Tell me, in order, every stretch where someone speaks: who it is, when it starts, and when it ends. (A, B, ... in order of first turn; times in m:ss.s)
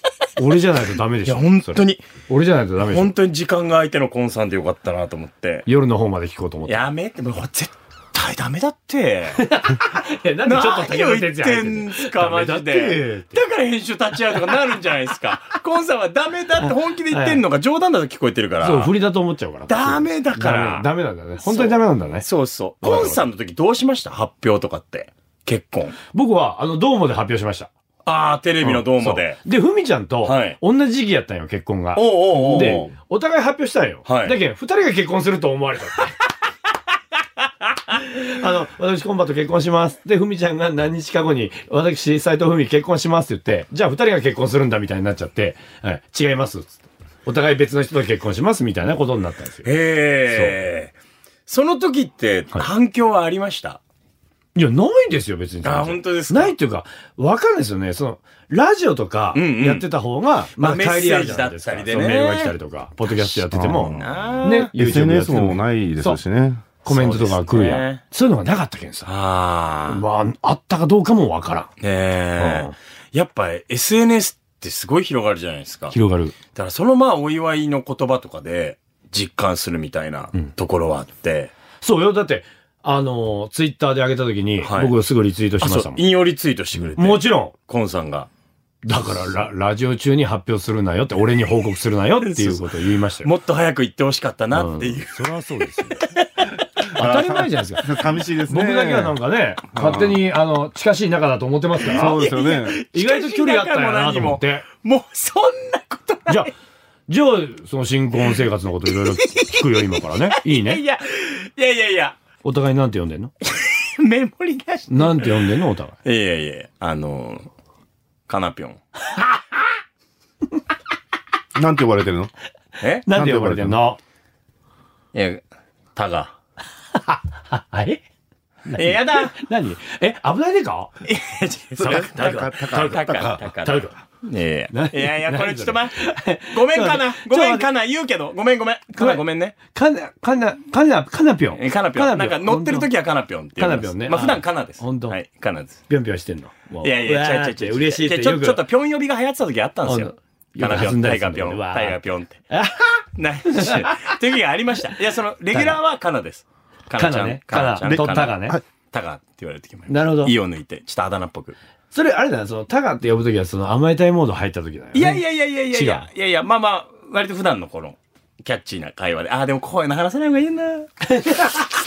0:00.4-0:03.1 A
0:01.2-0:02.0 B
0:02.8-0:05.7 B
0:05.6-0:06.8 A
0:06.6-0:09.5 B
0:09.4-0:13.4 A
0:10.4-0:18.9 B
0:16.6-0:17.4 A
0:18.6-0:22.2 A
0:19.7-0:20.9 B
0:21.4-0:26.0 B
0:22.8-0:23.2 A
0:26.1-0:27.7 A
0:28.0-0:29.4 B
0:28.6-0:36.1 A
0:30.2-0:30.6 B
0:31.9-0:32.9 B
0:34.0-0:34.4 B
0:37.9-0:49.7 A
0:49.6-0:50.9 B
0:50.3-0:50.6 A
0:51.5-0:53.8 B
0:54.6-1:06.2 A
0:55.6-0:56.5 B
0:59.3-0:59.9 B
1:00.6-1:02.5 B
1:03.1-1:04.7 B
1:03.5-1:04.1 C
1:04.7-1:06.6 C
1:06.8-1:09.1 A
1:06.8-1:08.0 B
1:09.0-1:10.0 B
1:09.9-1:11.7 A
1:11.8-1:16.0 B
1:12.4-1:12.7 A
1:15.9-1:16.3 A
1:16.5-1:21.5 B
1:21.8-1:26.0 A
1:24.6-1:24.9 B
1:25.6-1:28.3 B
1:27.0-1:27.5 A
1:28.8-1:33.3 A
1:32.2-1:35.3 B
1:34.5-1:36.0 A
1:35.9-1:36.5 B
1:36.9-1:39.2 C
1:36.9-1:37.9 A
1:38.5-1:42.2 A
1:39.7-1:40.2 C
1:41.8-1:42.8 C
1:41.9-1:46.5 B
1:42.9-1:44.6 A
1:47.1-1:50.8 A
1:49.2-1:52.2 B
1:52.4-1:53.3 A
1:53.4-1:55.3 B
1:54.9-1:55.9 A
1:56.0-1:57.5 B
1:58.3-1:58.8 B
2:01.5-2:02.3 C
2:02.8-2:03.0 B
2:03.0-2:04.0 A
2:03.1-2:03.8 C
2:05.1-2:05.4 B
2:06.0-2:06.3 B
2:06.9-2:08.0 A
2:08.6-2:10.9 A
2:08.7-2:09.3 B
2:11.0-2:19.6 B
2:11.8-2:14.0 A
2:11.8-2:13.4 C
2:14.7-2:17.7 A
2:18.9-2:22.9 A
2:21.6-2:25.8 B
2:23.6-2:25.2 A
2:25.9-2:28.6 A
2:26.8-2:32.4 B
2:29.8-2:32.0 A
2:32.5-2:34.1 A
2:33.2-2:41.6 B
2:35.5-2:35.8 A
2:37.0-2:38.6 A
2:37.8-2:38.6 C
2:39.9-2:40.3 A
2:41.9-2:46.1 A
2:44.9-2:50.9 B
2:51.0-2:51.7 A